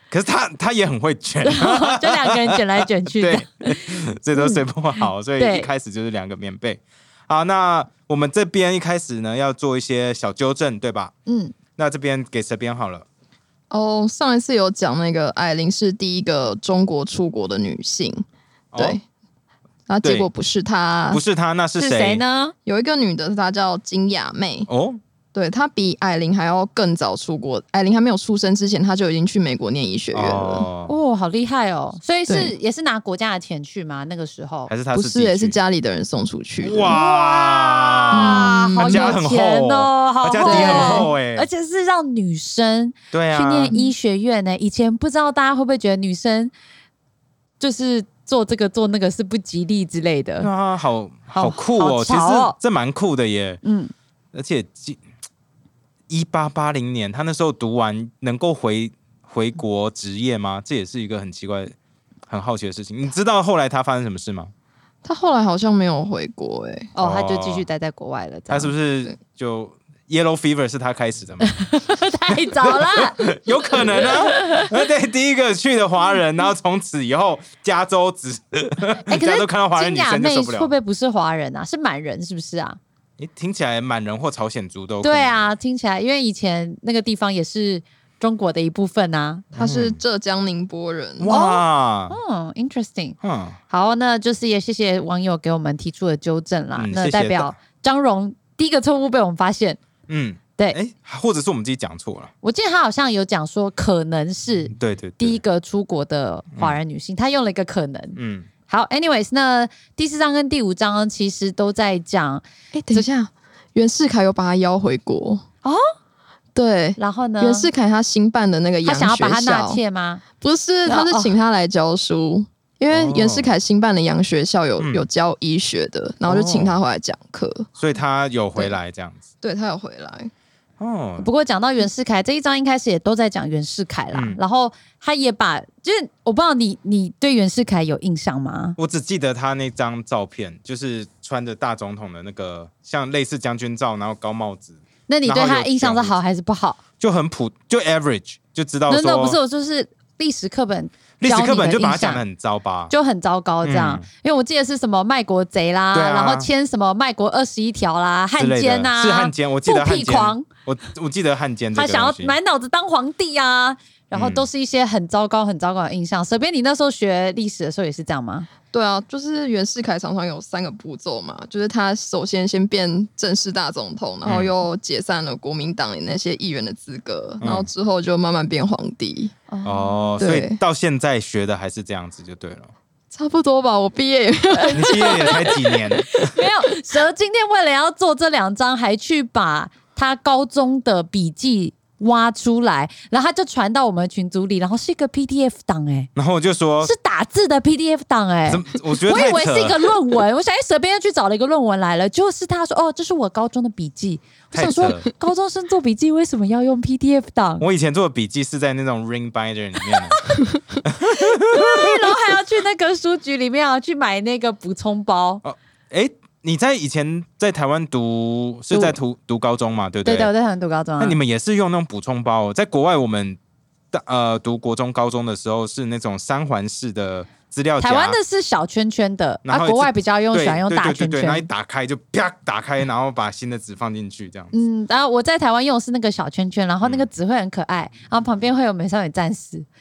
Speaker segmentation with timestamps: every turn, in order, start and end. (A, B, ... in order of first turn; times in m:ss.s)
0:00.1-0:11.1 A
0:01.4-0:04.6 B
0:05.4-0:05.7 B
0:11.3-0:11.6 B
0:11.8-0:13.0 A
0:13.7-0:18.2 C
0:18.7-0:19.0 A
0:18.8-0:19.0 C
0:19.9-0:21.2 C
0:20.0-0:20.3 A
0:21.1-0:22.2 A
0:21.8-0:22.5 B
0:22.7-0:24.7 C
0:24.7-0:25.0 A
0:25.3-0:30.7 C
0:30.1-0:30.9 A
0:30.9-0:34.7 B
0:32.3-0:32.5 C
0:34.7-0:35.6 A
0:34.9-0:36.9 C
0:36.6-0:41.5 A
0:36.8-0:46.5 B
0:38.1-0:39.1 C
0:40.4-0:41.1 C
0:43.1-0:43.8 A
0:47.6-0:50.5 B
0:50.4-0:53.6 A
0:51.3-0:52.6 B
0:53.6-0:53.9 B
0:54.3-0:55.0 A
0:56.1-1:01.8 A
1:02.3-1:04.5 A
1:05.0-1:06.9 C
1:07.0-1:08.7 B
1:07.0-1:07.6 A
1:08.5-1:11.5 A
1:11.4-1:13.2 B
1:12.6-1:20.7 A
1:13.8-1:14.7 B
1:19.1-1:22.8 B
1:23.2-1:25.4 A
1:25.0-1:29.5 B
1:29.5-1:30.0 A
1:29.6-1:31.3 C
1:31.2-1:32.2 A
1:31.3-1:33.2 B
1:33.2-1:33.6 A
1:33.7-1:39.8 B
1:36.8-1:37.5 A
1:40.1-1:42.3 A
1:42.4-1:53.1 B
1:44.7-1:45.4 A
1:48.2-1:48.5 A
1:52.7-1:55.4 C
1:56.6-1:59.8 C
1:57.0-1:57.7 B
1:58.8-2:00.2 B
2:00.4-2:07.7 C
2:00.9-2:01.4 B
2:02.9-2:03.5 A
2:04.8-2:05.1 A
2:06.3-2:06.8 A
2:07.8-2:09.2 A
2:09.4-2:10.3 C
2:10.8-2:11.3 A
2:11.2-2:18.8 B
2:14.1-2:14.4 A
2:18.8-2:26.2 A
2:25.1-2:26.8 B
2:27.0-2:29.4 A
2:28.9-2:32.2 B
2:31.2-2:32.9 A
2:32.9-2:40.5 B
2:33.6-2:34.1 A
2:35.9-2:36.5 A
2:38.4-2:42.4 A
2:41.7-2:48.5 B
2:44.1-2:44.5 A
2:48.7-2:59.3 C
2:54.3-2:54.5 A
2:57.4-2:57.7 A
2:59.5-3:00.2 B
2:59.6-3:02.7 A
3:00.2-3:00.6 C
3:03.1-3:06.4 C
3:04.5-3:16.1 B
3:04.7-3:06.3 A
3:16.2-3:16.9 A
3:16.8-3:27.7 B
3:18.5-3:19.8 A
3:24.5-3:25.0 A
3:27.6-3:30.2 A
3:30.8-3:32.2 A
3:31.1-3:35.4 B
3:35.4-3:40.3 A
3:38.7-3:39.0 B
3:40.0-3:41.2 B
3:41.0-3:43.4 A
3:43.9-3:48.2 A
3:47.8-3:51.5 B
3:49.4-3:54.5 A
3:54.5-3:59.7 B
3:56.8-3:57.1 A